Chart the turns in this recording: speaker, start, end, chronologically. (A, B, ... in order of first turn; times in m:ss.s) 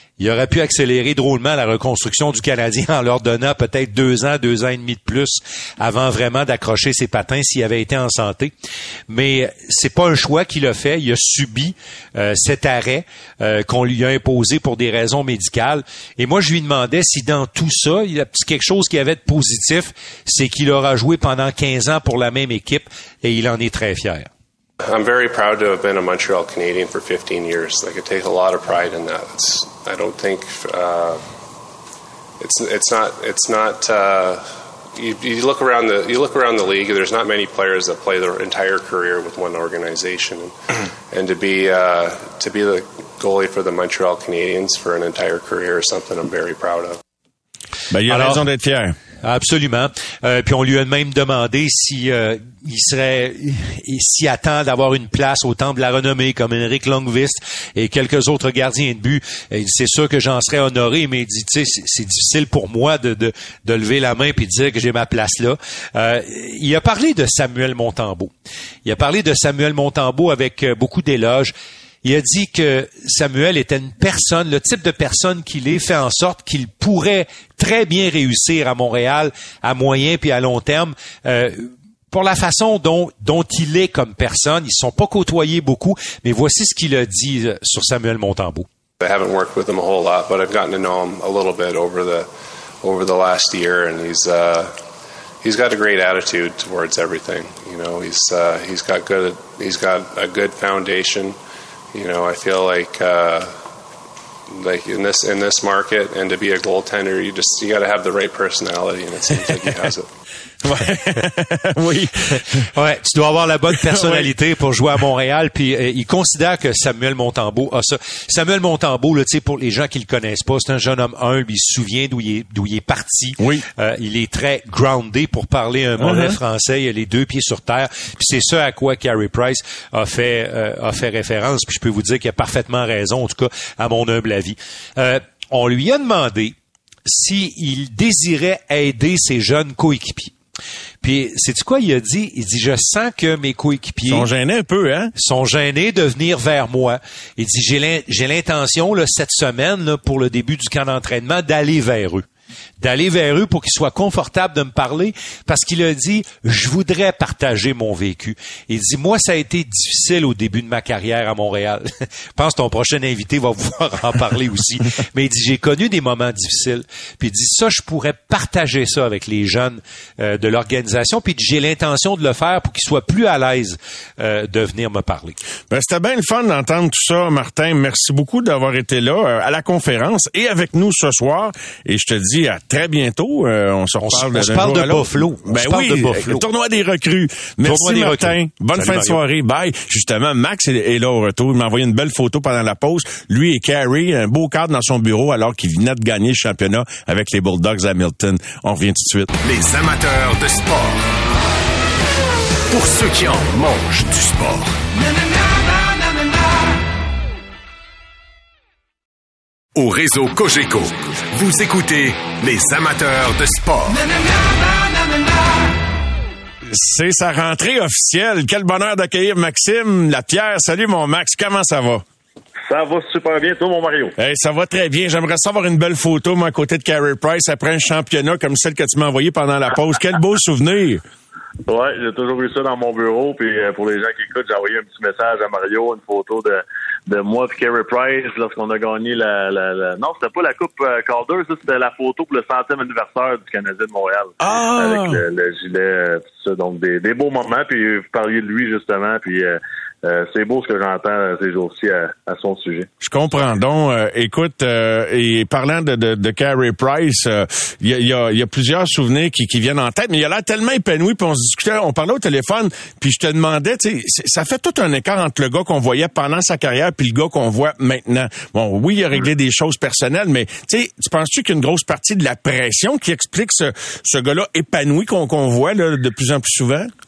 0:00.2-0:08.5 A
0:09.1-0:24.3 A
0:24.8-0:31.2 B
0:32.4-0:40.6 B
0:41.1-0:47.0 B
0:47.9-0:48.9 C
0:48.1-0:48.4 A
0:49.2-1:08.3 A
1:08.8-1:11.5 A
1:12.0-1:28.7 A
1:29.0-1:32.3 B
1:32.8-1:34.8 B
1:35.4-1:41.4 B
1:41.9-1:43.6 B
1:44.5-1:50.1 B
1:50.6-1:52.7 C
1:52.7-2:20.3 A
1:53.8-1:54.3 C
2:03.4-2:03.6 C
2:06.0-2:06.4 C
2:21.0-2:24.3 A
2:24.0-2:25.1 C
2:25.2-2:32.2 A
2:32.8-2:55.4 A
2:55.7-3:19.3 C
3:04.0-3:06.4 A
3:07.6-3:09.2 A
3:19.4-3:21.1 D
3:22.7-3:24.8 D
3:29.7-3:34.1 D
3:36.7-3:42.0 C
3:42.7-3:44.2 E
3:44.2-3:51.0 C
3:51.7-4:12.9 E
4:04.4-4:05.2 C
4:13.0-4:36.9 C